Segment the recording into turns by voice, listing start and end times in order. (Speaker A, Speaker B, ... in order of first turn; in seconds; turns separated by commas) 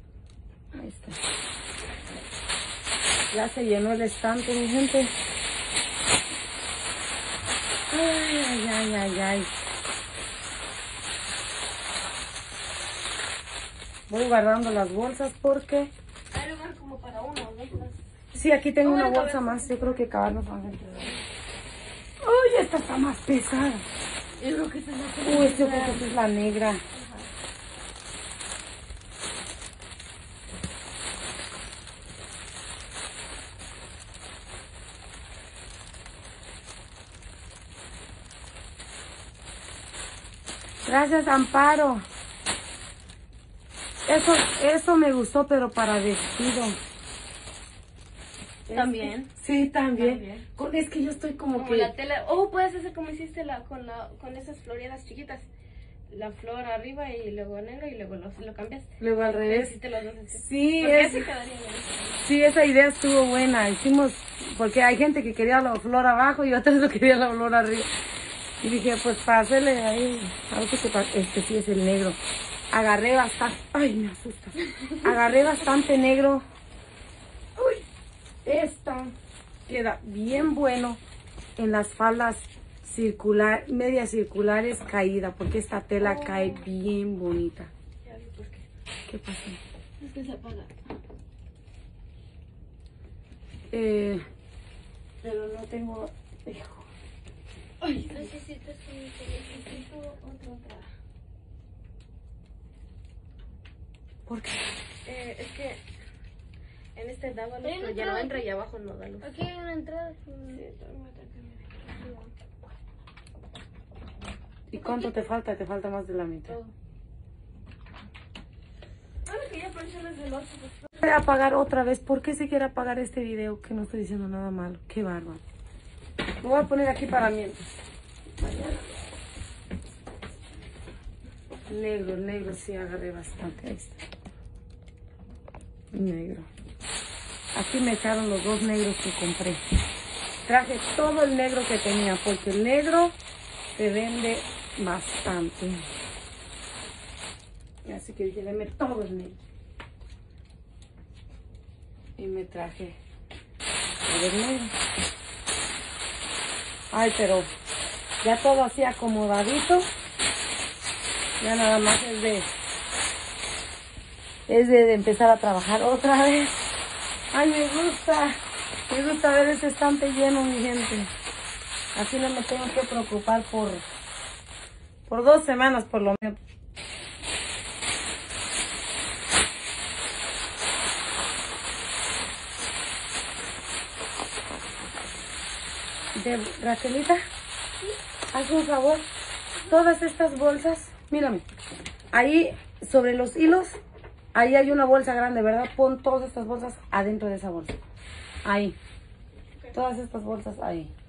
Speaker A: 0.7-1.2, Speaker A: 3.3-5.1, Speaker A: 7.9-9.5, Speaker A: 14.1-15.9, Speaker B: 16.3-18.0, Speaker A: 18.3-21.1, Speaker B: 18.8-20.0, Speaker A: 22.2-23.9, Speaker B: 24.4-26.1, Speaker A: 25.2-26.8, Speaker B: 26.9-27.3, Speaker A: 40.9-42.0, Speaker A: 44.1-46.8, Speaker A: 48.7-51.9, Speaker B: 48.7-49.3, Speaker B: 49.9-50.5, Speaker B: 51.6-55.5, Speaker B: 56.1-62.2, Speaker A: 59.0-59.7, Speaker A: 60.3-61.3, Speaker A: 62.2-67.9, Speaker A: 68.6-72.2, Speaker A: 72.7-76.4, Speaker A: 78.4-79.1, Speaker A: 79.7-81.0, Speaker A: 81.6-87.7, Speaker B: 86.0-86.7, Speaker B: 88.0-88.6, Speaker A: 89.1-89.6, Speaker B: 90.0-90.9, Speaker A: 93.7-94.2, Speaker A: 95.2-96.9, Speaker B: 97.8-98.4, Speaker C: 97.9-99.9, Speaker B: 99.3-100.9, Speaker A: 104.3-104.7, Speaker B: 105.0-105.8, Speaker B: 106.9-109.3, Speaker C: 107.6-108.5, Speaker C: 109.2-110.6, Speaker B: 110.5-112.1, Speaker C: 112.0-112.3, Speaker A: 114.7-116.6, Speaker B: 114.8-115.1, Speaker B: 119.3-121.1, Speaker A: 121.0-125.4, Speaker A: 126.4-127.7, Speaker A: 128.4-129.0, Speaker A: 131.7-134.0, Speaker A: 135.9-136.5, Speaker A: 137.5-139.6, Speaker A: 140.4-143.2, Speaker A: 143.8-145.9, Speaker A: 147.9-149.4, Speaker A: 152.2-153.0, Speaker A: 154.1-154.7, Speaker A: 156.9-157.5, Speaker A: 158.2-159.9, Speaker A: 161.4-162.5, Speaker A: 164.5-166.6, Speaker A: 167.3-168.4, Speaker A: 168.9-171.1, Speaker A: 171.9-173.8, Speaker A: 175.1-176.4, Speaker A: 186.1-187.2, Speaker A: 188.3-189.1, Speaker A: 189.6-191.4, Speaker A: 192.1-193.8, Speaker A: 194.3-197.8, Speaker A: 198.4-198.8, Speaker A: 199.7-200.9